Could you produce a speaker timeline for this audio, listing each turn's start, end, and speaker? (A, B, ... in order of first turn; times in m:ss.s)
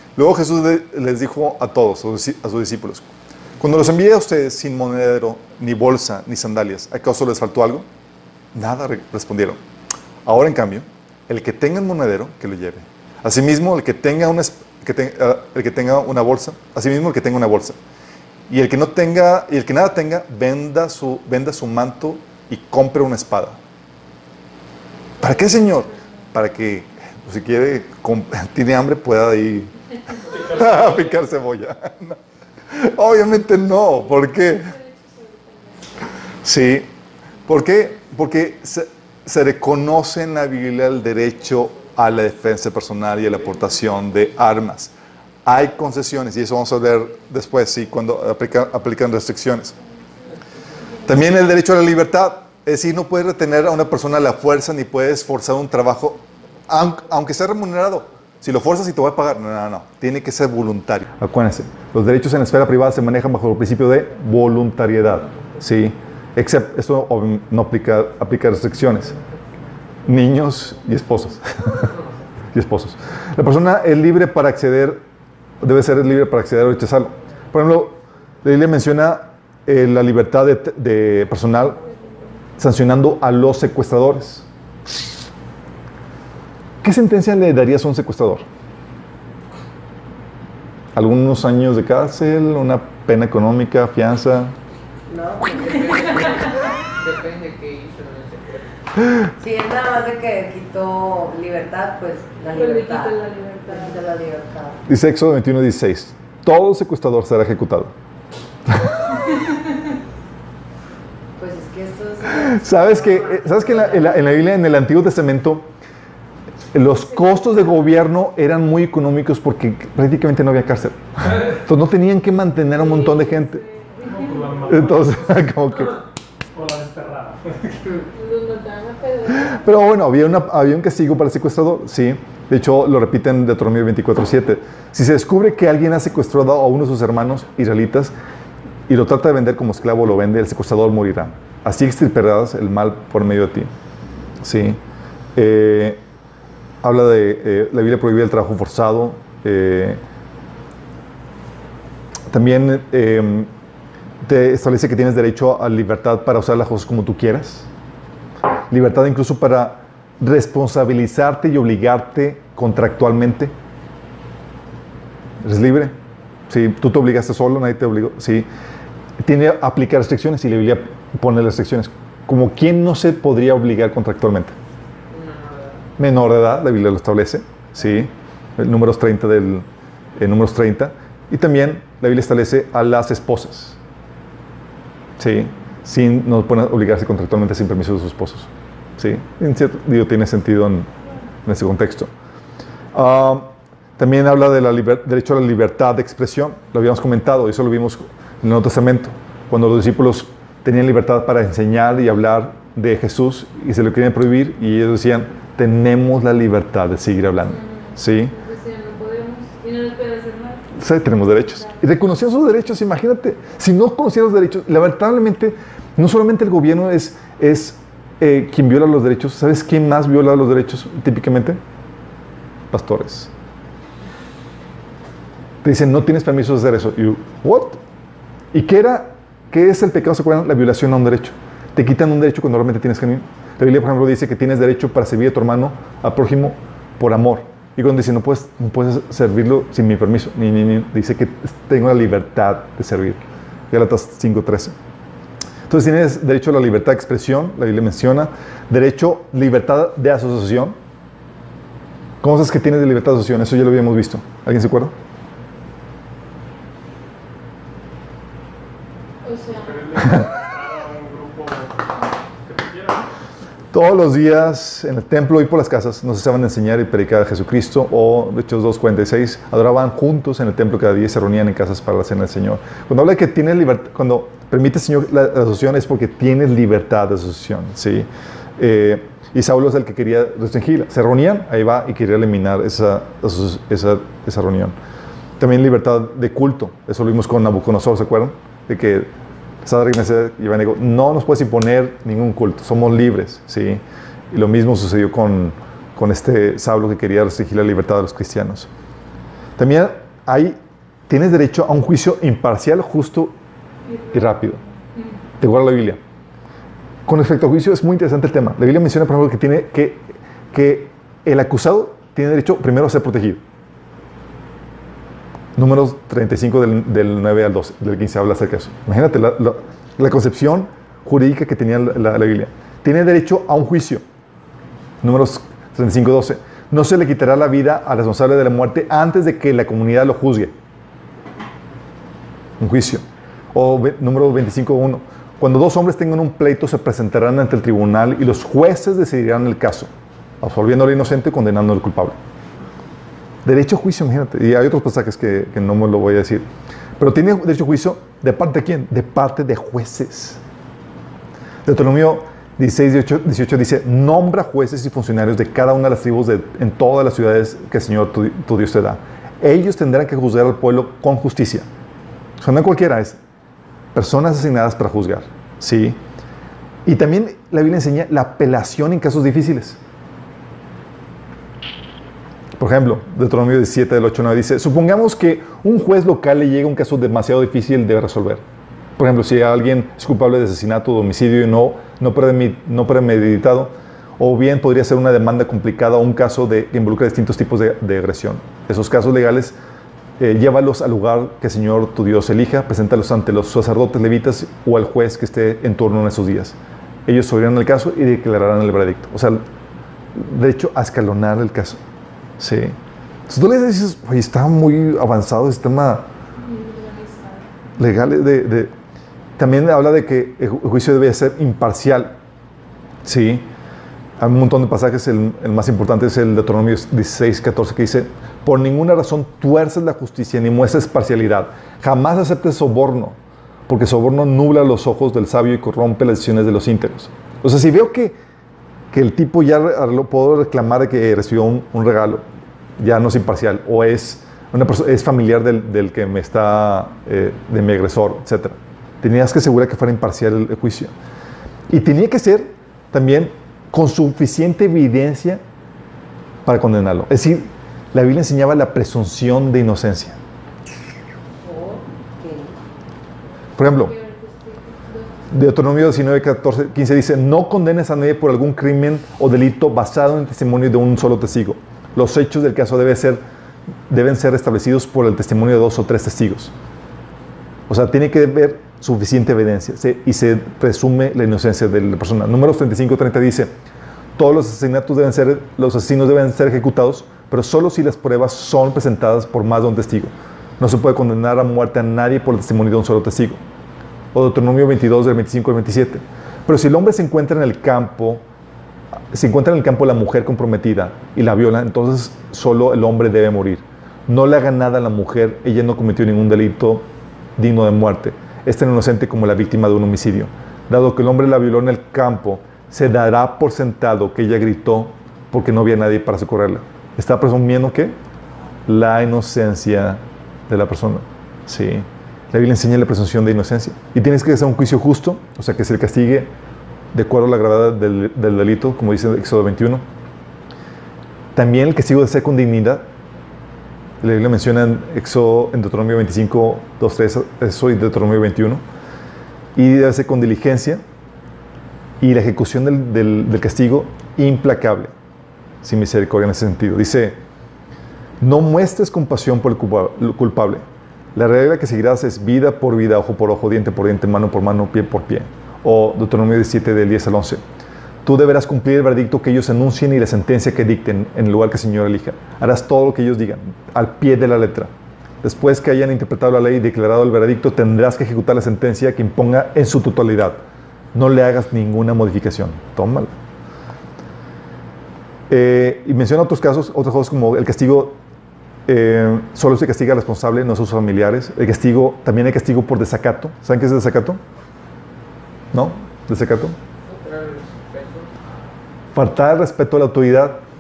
0:00.2-0:03.1 A
0:03.6-0:07.9 A
0:08.5-0:09.6 A
0:10.2-0:17.8 A
0:18.5-0:23.6 A
0:25.2-0:32.2 A
0:25.2-0:26.0 B
0:30.3-0:31.2 C
0:32.7-0:34.7 A
0:33.8-0:36.1 B
0:36.4-0:36.9 A
0:37.5-0:44.9 A
0:45.4-0:49.8 A
0:49.8-0:50.3 B
0:50.9-0:51.2 B
0:51.0-1:09.2 A
1:10.0-1:11.9 A
1:12.5-1:15.0 A
1:15.6-1:21.8 A
1:21.8-1:22.4 B
1:22.6-1:24.5 A
1:26.8-1:28.5 A
1:31.0-1:34.5 A
1:35.1-1:36.3 D
1:35.4-1:38.7 E
1:39.4-1:44.8 D
1:42.5-1:44.0 B
1:44.9-1:47.9 A
1:48.7-1:49.1 A
1:49.2-1:49.9 B
1:51.4-1:54.4 D
1:52.3-1:55.7 A
1:56.7-2:03.6 A
1:57.1-1:57.9 B
2:02.6-2:04.9 B
2:04.1-2:05.4 C
2:04.7-2:06.0 A
2:06.5-2:08.0 C
2:08.1-2:09.7 B
2:09.3-2:18.1 A
2:18.9-2:23.7 A
2:24.4-2:24.8 A
2:25.4-2:26.0 A
2:26.8-2:30.0 A
2:32.3-2:33.5 A
2:34.2-2:37.7 A
2:38.7-2:43.5 A
2:45.4-2:46.0 A
2:46.5-2:48.5 A
2:49.2-2:54.6 A
2:55.1-2:55.9 E
2:56.0-2:59.7 A
3:00.2-3:03.8 A
3:05.2-3:10.9 A
3:11.4-3:12.1 A
3:12.9-3:28.3 A
3:27.4-3:30.7 B
3:30.7-3:41.6 A
3:31.6-3:31.8 B
3:42.7-3:43.3 A
3:45.6-3:47.8 A
3:48.5-4:04.8 A
4:05.7-4:10.8 A
4:12.2-4:14.9 A
4:19.2-4:20.3 B
4:19.6-4:23.1 C
4:23.7-4:44.8 A
4:45.4-4:49.1 A
4:49.6-4:58.7 A
4:59.6-5:03.4 A
5:03.8-5:05.2 B
5:04.1-5:04.6 A
5:05.4-5:06.0 A
5:07.1-5:13.4 A
5:15.6-5:24.0 A
5:25.0-5:30.6 A
5:32.6-5:39.9 A
5:40.4-5:42.2 A
5:43.4-5:46.5 A
5:47.0-5:50.4 A
5:51.6-6:01.7 A
6:02.4-6:03.2 A
6:03.9-6:06.0 A
6:06.8-6:09.8 A
6:12.6-6:18.4 A
6:19.0-6:29.6 A
6:30.2-6:39.5 A
6:40.1-6:41.8 A
6:42.4-6:42.8 A
6:43.3-6:46.1 A
6:46.4-6:47.5 B
6:47.8-6:48.7 A
6:49.4-6:52.2 A
6:53.0-6:53.5 A
6:54.2-7:08.2 A
7:08.9-7:12.2 A
7:12.8-7:20.9 A
7:21.7-7:25.4 A
7:26.5-7:30.2 A
7:31.4-7:32.5 D
7:33.6-7:33.9 A
7:33.6-7:35.7 B
7:35.3-7:43.2 A
7:43.9-7:46.5 A
7:47.7-7:53.5 A
7:54.2-8:03.4 A
8:04.1-8:08.2 A
8:09.1-8:28.0 A
8:28.7-8:36.3 A
8:36.9-8:39.9 A
8:41.4-8:42.9 A
8:44.0-8:48.6 A
8:49.6-8:50.8 A
8:52.0-8:54.9 A
8:55.6-8:57.2 A
8:58.2-9:07.4 A
9:08.0-9:20.4 A
9:20.9-9:23.1 A
9:25.3-9:28.0 A
9:28.7-9:34.2 A
9:35.5-9:36.6 A
9:36.9-9:38.1 E
9:39.0-9:40.4 A